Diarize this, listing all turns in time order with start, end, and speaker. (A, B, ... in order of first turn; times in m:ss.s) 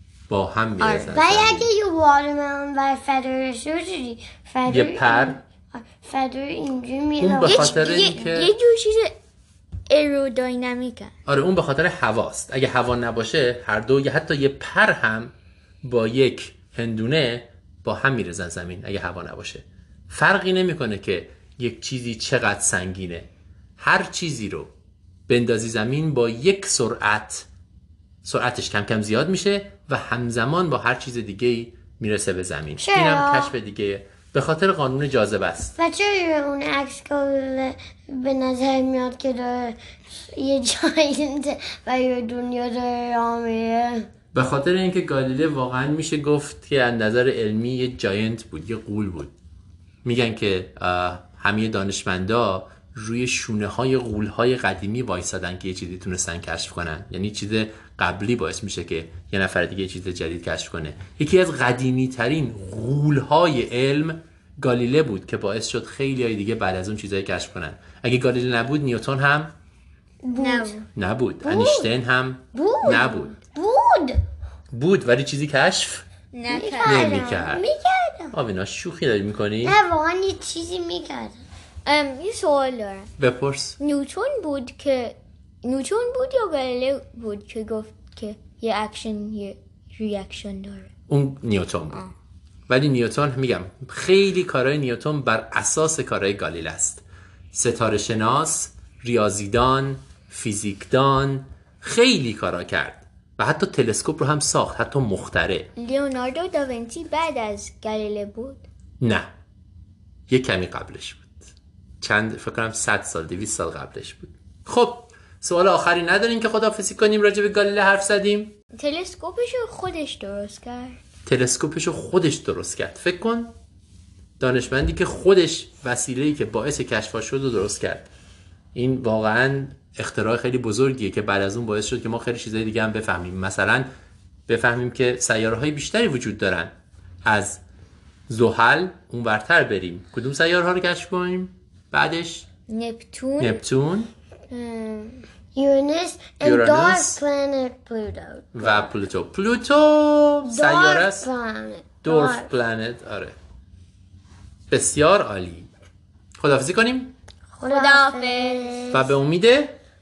0:00.3-0:01.7 A
0:00.8-0:01.2 B
0:01.1-0:08.2 C
0:04.6-0:05.4 A
0:07.2-0:08.5 A
0:07.4-0:09.1 B
0:09.9-0:11.1 B
0:11.2-0:24.7 A
0:25.3-0:27.5 A
0:28.2-0:35.7 A
0:32.8-0:33.5 C
0:35.8-0:44.1 C
0:44.3-0:49.3 A
0:50.0-1:09.5 A
1:10.2-1:10.8 C
1:10.3-1:10.8 B
1:10.9-1:13.4 A
1:11.4-1:11.9 C
1:12.6-1:14.2 C
1:14.7-1:16.0 A
1:16.3-1:17.1 B
1:16.5-1:18.3 C
1:16.8-1:17.6 A
1:18.3-1:19.8 A
1:19.6-1:21.4 C
1:21.8-1:23.1 B
1:23.2-1:23.8 A
1:23.8-1:30.9 B
1:31.1-1:32.0 A
1:32.7-1:45.7 A
1:45.8-1:48.6 B
1:49.0-1:49.3 A
1:50.3-1:51.3 A
1:52.0-1:58.5 A
1:58.8-2:01.0 B
2:01.2-2:03.5 A
2:04.4-2:08.1 A
2:08.7-2:13.9 A
2:14.5-2:16.7 A
2:17.2-2:17.6 A
2:18.3-2:22.5 A
2:22.7-2:23.6 B
2:23.4-2:24.1 A
2:24.5-2:25.2 B
2:25.5-2:28.9 C
2:26.4-2:27.2 A
2:28.5-2:31.3 A
2:30.4-2:32.5 C
2:32.0-2:33.4 A
2:34.7-2:35.7 A
2:36.4-2:37.1 A
2:37.6-2:39.1 C
2:37.6-2:38.8 B
2:38.9-2:39.8 A